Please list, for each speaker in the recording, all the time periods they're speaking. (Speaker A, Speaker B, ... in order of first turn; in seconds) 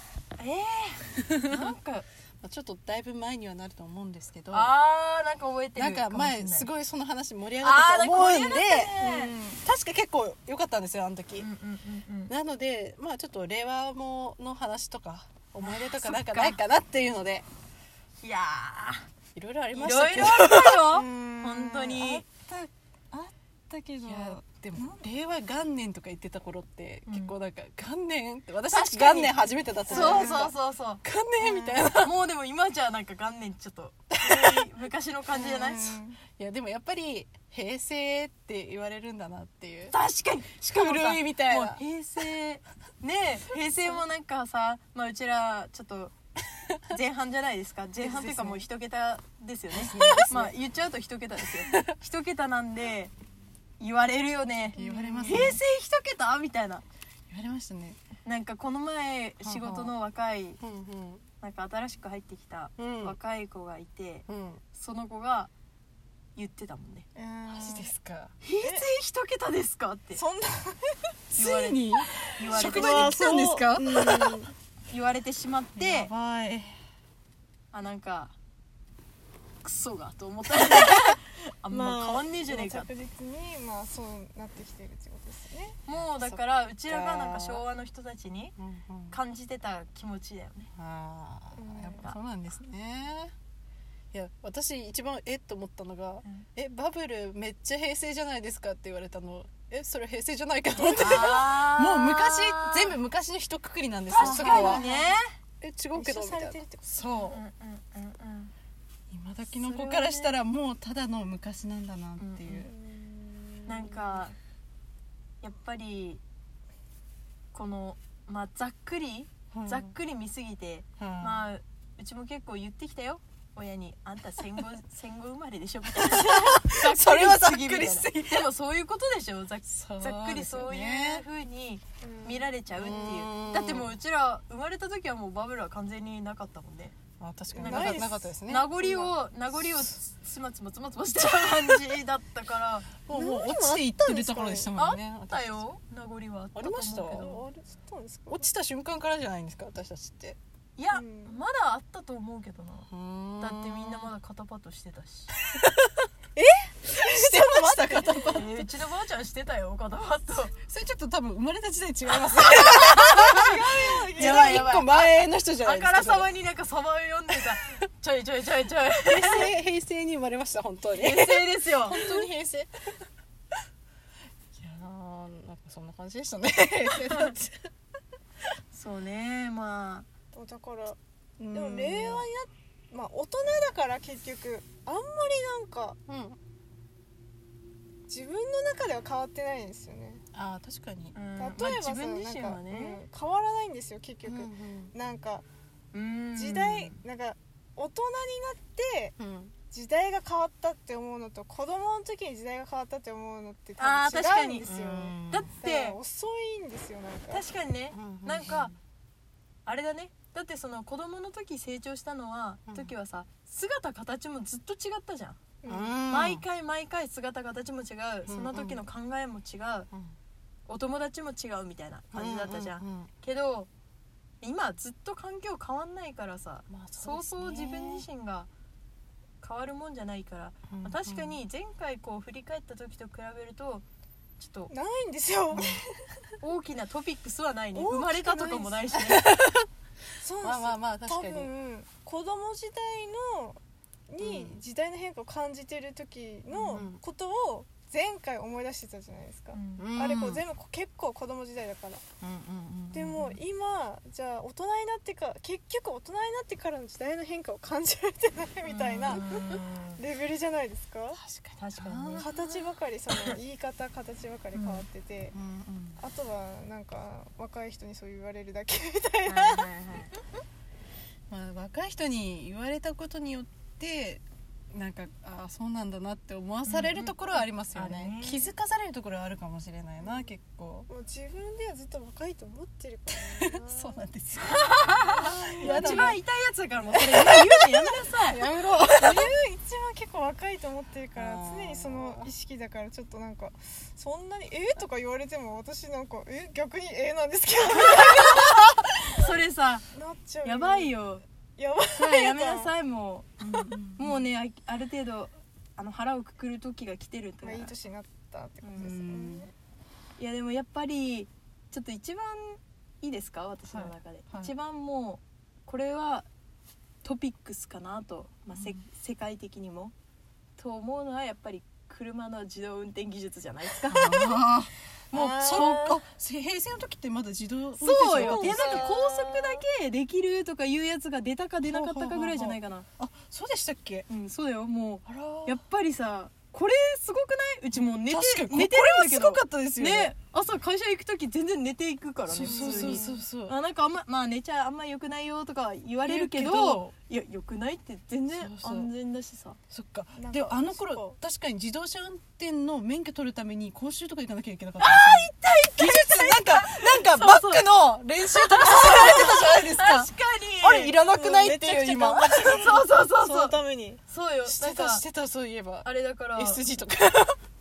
Speaker A: 0.4-2.1, 4.5-6.7, 7.6-9.3, 11.4-12.3, 15.6-16.6, 18.2-19.1, 19.7-22.3, 23.7-24.4, 27.1-27.3, 28.7-36.0, 39.9-46.1, 46.8-53.1, 53.8-56.8, 58.2-60.6, 61.4-65.5, 66.3-67.0, 68.4-70.2, 71.4-73.2, 74.9-76.1, 77.7-78.3, 79.6-82.9, 85.9-88.5, 89.1-90.7, 100.9-102.9, 104.1-105.3, 107.3-108.5, 109.5-110.3, 112.2-112.7, 113.7-114.3, 115.4-116.2, 117.5-136.9, 137.6-142.9, 144.8-147.4, 150.8-152.9, 153.4-155.3, 158.2-160.5, 162.2-169.5, 170.9-172.2, 177.0-177.3, 178.7-180.1, 191.1-193.0, 195.9-197.0, 203.8-204.7, 205.3-206.0, 207.3-208.7, 209.7-215.4, 216.1-219.9, 220.7-223.7, 224.4-228.5, 229.4-233.8, 234.4-234.7, 236.4-239.3, 249.5-249.8, 258.6-260.0, 261.6-262.5, 269.2-270.2, 276.6-278.5, 284.4-288.5, 297.7-299.9, 300.4-301.2, 301.9-307.7, 308.6-308.9, 310.2-316.3, 317.0-319.9, 320.6-324.4, 325.1-325.9, 327.8-332.9, 334.1-349.6, 354.8-360.9, 362.5-365.0, 365.8-366.6
Speaker B: 1.5-1.7, 2.4-4.7, 5.8-11.5, 12.3-17.4, 19.3-21.0, 22.0-23.2, 24.0-32.1, 34.2-34.6, 36.4-40.0, 40.6-41.8, 48.0-48.6, 49.7-50.5, 51.6-51.9, 54.8-55.6, 57.3-58.0, 59.4-59.9, 60.6-61.2, 62.8-63.2, 64.3-64.6, 67.5-68.3, 71.3-74.5, 75.8-76.8, 86.0-87.6, 88.6-89.1, 90.7-93.3, 94.1-104.8, 105.6-107.4, 109.1-112.7, 119.5-119.9, 121.0-121.5, 126.0-128.5, 129.7-131.2, 132.8-133.9, 137.2-138.7, 143.1-145.6, 146.5-147.3, 148.3-150.4, 152.9-154.1, 155.5-156.0, 156.8-158.6, 160.6-163.6, 164.1-166.3, 169.1-172.7, 174.6-177.7, 181.4-182.2, 186.1-186.4, 190.3-191.2, 194.2-194.9, 199.2-199.5, 204.6-205.5, 207.9-208.7, 212.7-212.9, 215.7-216.4, 218.3-218.8, 222.1-223.1, 226.7-228.0, 230.7-231.4, 235.5-235.8, 239.1-239.7, 240.4-241.5, 244.2-244.6, 246.5-247.0, 249.8-250.4, 252.2-253.4, 259.1-259.5, 261.1-262.3, 264.5-266.0, 271.3-280.9, 283.4-286.2, 286.9-289.3, 291.1-292.3, 303.4-304.2, 308.8-309.5, 313.7-314.5, 318.5-318.8, 323.9-329.4, 331.6-334.1, 335.1-335.6, 338.1-340.1, 342.3-343.6, 346.1-346.9, 348.4-348.9, 349.7-360.1, 360.6-362.8, 364.4-367.4
Speaker C: 9.0-9.6, 20.8-22.0, 29.9-30.5, 35.3-36.2, 67.1-67.9, 68.6-68.9, 70.1-71.0, 72.5-74.5, 81.7-85.8, 91.5-92.1, 104.2-105.2, 105.9-107.2, 112.5-114.2, 132.0-132.9, 137.5-139.2, 143.1-144.7, 147.1-148.5, 150.9-151.4, 156.3-158.4, 163.1-164.7, 180.3-181.0, 181.5-186.0, 188.1-190.2, 191.3-195.4, 196.3-199.2, 199.7-207.4, 215.6-216.0, 234.7-236.2, 237.7-238.9, 240.2-252.0, 252.9-261.2, 262.2-265.3, 266.0-269.7, 280.0-280.3, 280.9-284.1, 285.0-286.1, 289.0-298.5, 299.9-300.9, 301.6-302.7, 307.4-309.5, 325.1-326.0, 328.2-329.0, 342.3-343.2, 350.1-351.2, 360.8-364.0